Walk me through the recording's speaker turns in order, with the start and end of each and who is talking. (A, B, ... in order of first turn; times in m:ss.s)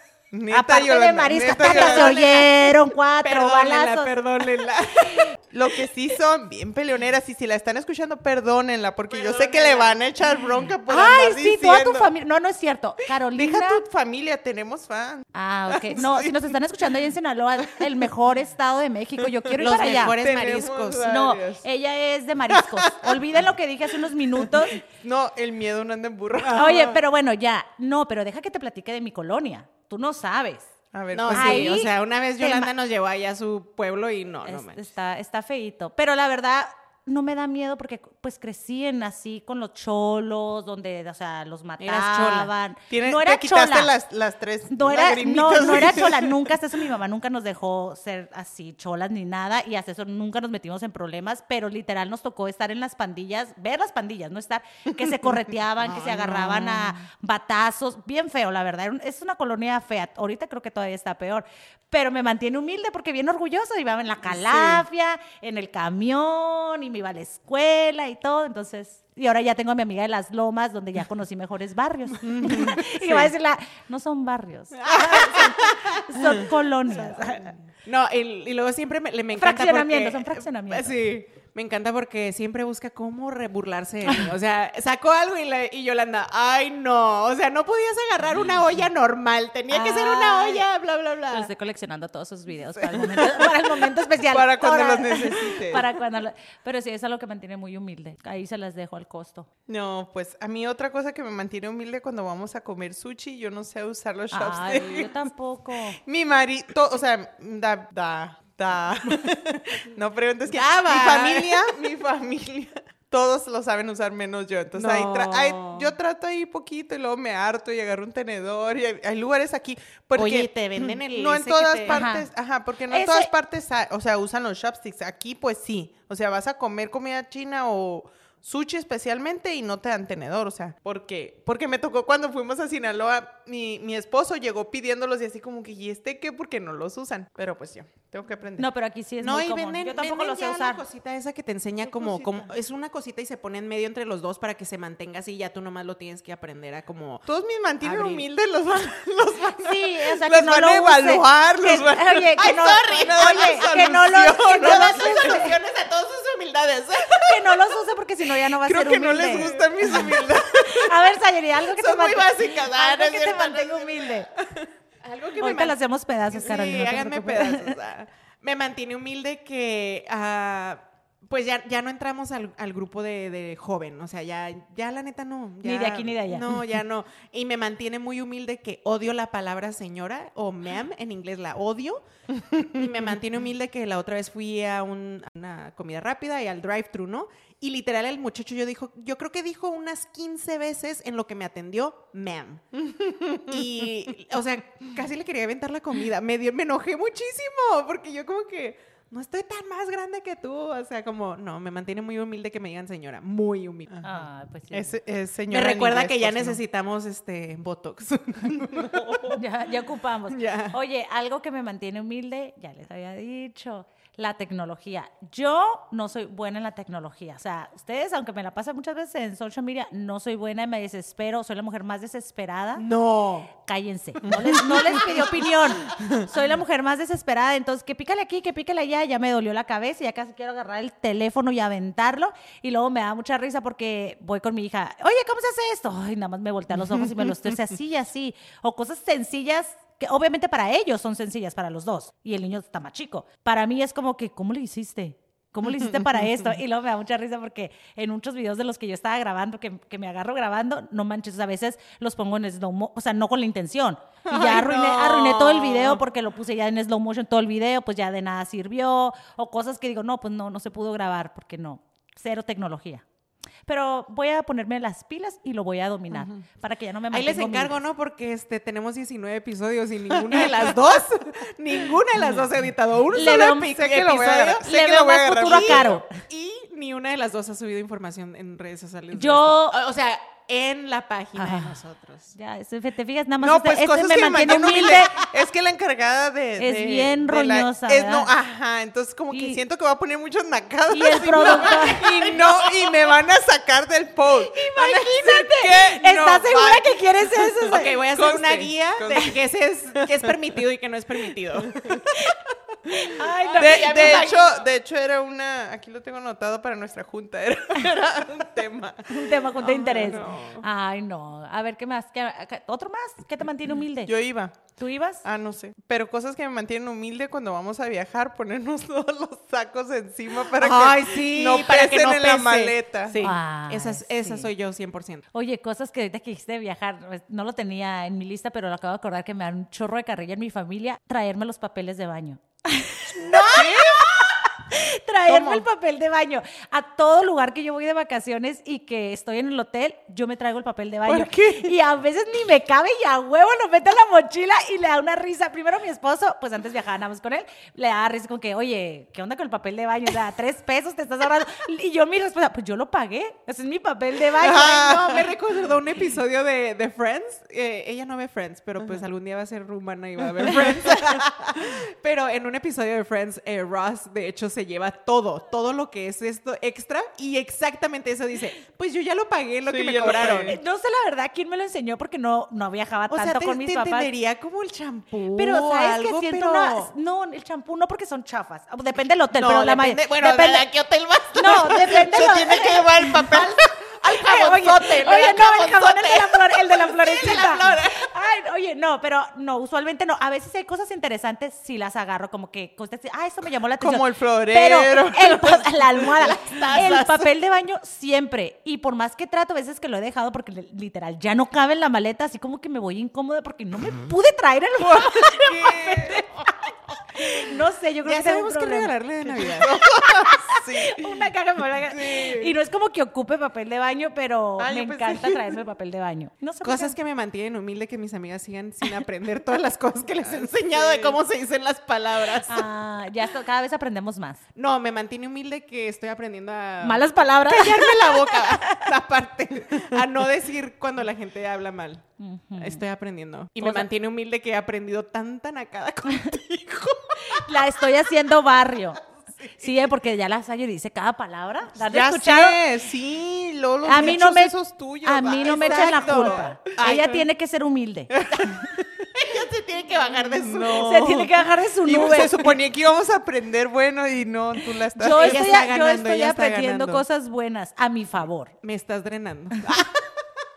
0:00.3-0:02.4 A
0:00.5-0:04.1 B
0:01.6-0:02.7 C
0:03.2-0:05.4 C
0:05.5-0:12.1 A
0:09.1-0:10.1 C
0:10.9-0:13.8 B
0:13.2-0:16.6 A
0:15.3-0:20.2 B
0:17.6-0:17.9 A
0:19.2-0:21.7 A
0:19.6-0:21.1 C
0:21.0-0:24.8 B
0:22.5-0:23.2 A
0:24.4-0:26.9 A
0:26.5-0:30.7 B
0:30.9-0:31.8 A
0:31.2-0:34.9 C
0:31.3-0:32.7 B
0:34.4-0:43.9 B
0:41.8-0:42.5 C
0:42.9-0:46.5 A
0:44.7-1:17.5 B
0:55.9-0:56.8 C
0:56.1-0:56.7 A
1:04.4-1:04.8 A
1:12.2-1:13.2 A
1:14.8-1:31.5 C
1:19.4-1:20.9 B
1:29.7-1:30.6 B
1:31.3-1:39.5 B
1:32.8-1:33.6 A
1:34.3-1:35.9 A
1:39.7-1:45.3 A
1:44.3-1:46.0 B
1:46.0-2:18.7 A
1:50.5-1:51.8 C
1:54.8-1:55.9 C
2:00.2-2:02.1 C
2:01.9-2:02.3 B
2:02.9-2:03.3 B
2:18.6-2:20.8 B
2:19.2-2:27.2 C
2:21.9-2:22.5 B
2:27.3-2:35.4 A
2:27.8-2:28.2 C
2:29.6-2:35.6 B
2:32.4-2:37.6 C
2:37.1-2:40.0 B
2:38.6-2:41.0 A
2:39.2-2:40.2 C
2:40.6-2:44.3 B
2:41.8-2:44.2 C
2:45.0-2:45.8 C
2:45.4-2:47.7 B
2:46.3-3:24.1 C
2:55.6-2:56.6 B
3:13.0-3:13.6 A
3:24.0-3:25.0 B
3:24.7-3:26.6 A
3:25.5-3:29.4 C
3:28.8-3:29.2 A
3:29.3-3:42.8 B
3:30.3-3:30.8 C
3:42.8-3:43.5 C
3:43.6-4:23.0 B
3:44.3-3:45.0 A
3:46.0-3:46.2 A
3:57.0-3:57.3 A
4:14.3-4:16.0 C
4:23.7-4:27.8 B
4:26.1-4:26.4 A
4:27.1-4:34.7 C
4:30.1-4:30.8 A
4:33.1-4:33.8 B
4:33.1-4:36.0 A
4:34.6-4:36.1 B
4:35.3-4:42.3 C
4:39.1-4:39.8 B
4:42.4-4:45.2 B
4:43.4-4:59.4 A
4:46.6-4:48.3 B
4:49.3-4:49.6 B
4:50.9-4:52.3 B
4:51.3-4:53.0 C
4:54.5-4:57.9 B
4:57.7-5:02.3 C
5:00.0-5:00.4 A
5:01.3-5:02.3 A
5:02.9-5:04.3 B
5:03.4-5:04.7 C
5:03.6-5:09.4 A
5:09.1-5:14.1 B
5:09.6-5:10.6 C
5:14.1-5:23.3 A
5:14.8-5:15.2 B
5:20.6-5:25.3 C
5:23.2-5:24.5 B
5:25.3-5:55.2 B
5:33.3-5:34.1 A
5:33.4-5:33.8 C
5:35.3-5:35.7 A
5:41.1-5:41.7 A
5:54.4-6:10.6 C
5:54.4-5:55.2 A
6:00.4-6:01.2 A
6:09.7-6:10.6 A
6:10.1-6:14.1 B
6:13.1-6:16.9 C
6:15.3-6:20.7 B
6:19.3-6:28.1 C
6:21.3-6:23.5 B
6:22.2-6:23.5 A
6:24.1-6:48.9 B
6:33.8-6:35.9 A
6:36.0-6:37.3 C
6:45.2-6:46.2 A
6:48.0-6:49.8 C
6:49.4-6:51.3 A
6:49.8-6:57.0 B
6:51.8-6:52.5 A
6:54.6-6:55.6 A
6:56.6-7:02.7 C
7:00.2-7:01.2 A
7:02.5-7:04.4 B
7:04.6-7:12.0 C
7:06.8-7:08.9 B
7:12.2-7:12.8 B
7:12.6-7:17.6 C
7:13.6-7:13.9 B
7:17.3-7:19.0 B
7:19.6-7:22.6 B
7:21.8-7:27.0 A
7:23.9-7:28.7 B
7:25.3-7:27.2 C
7:28.2-7:28.8 A
7:29.1-7:31.3 C
7:30.3-7:31.3 A
7:30.6-7:32.5 B
7:31.8-7:35.5 A
7:35.0-7:38.5 B
7:35.1-7:37.0 C
7:38.6-7:40.2 C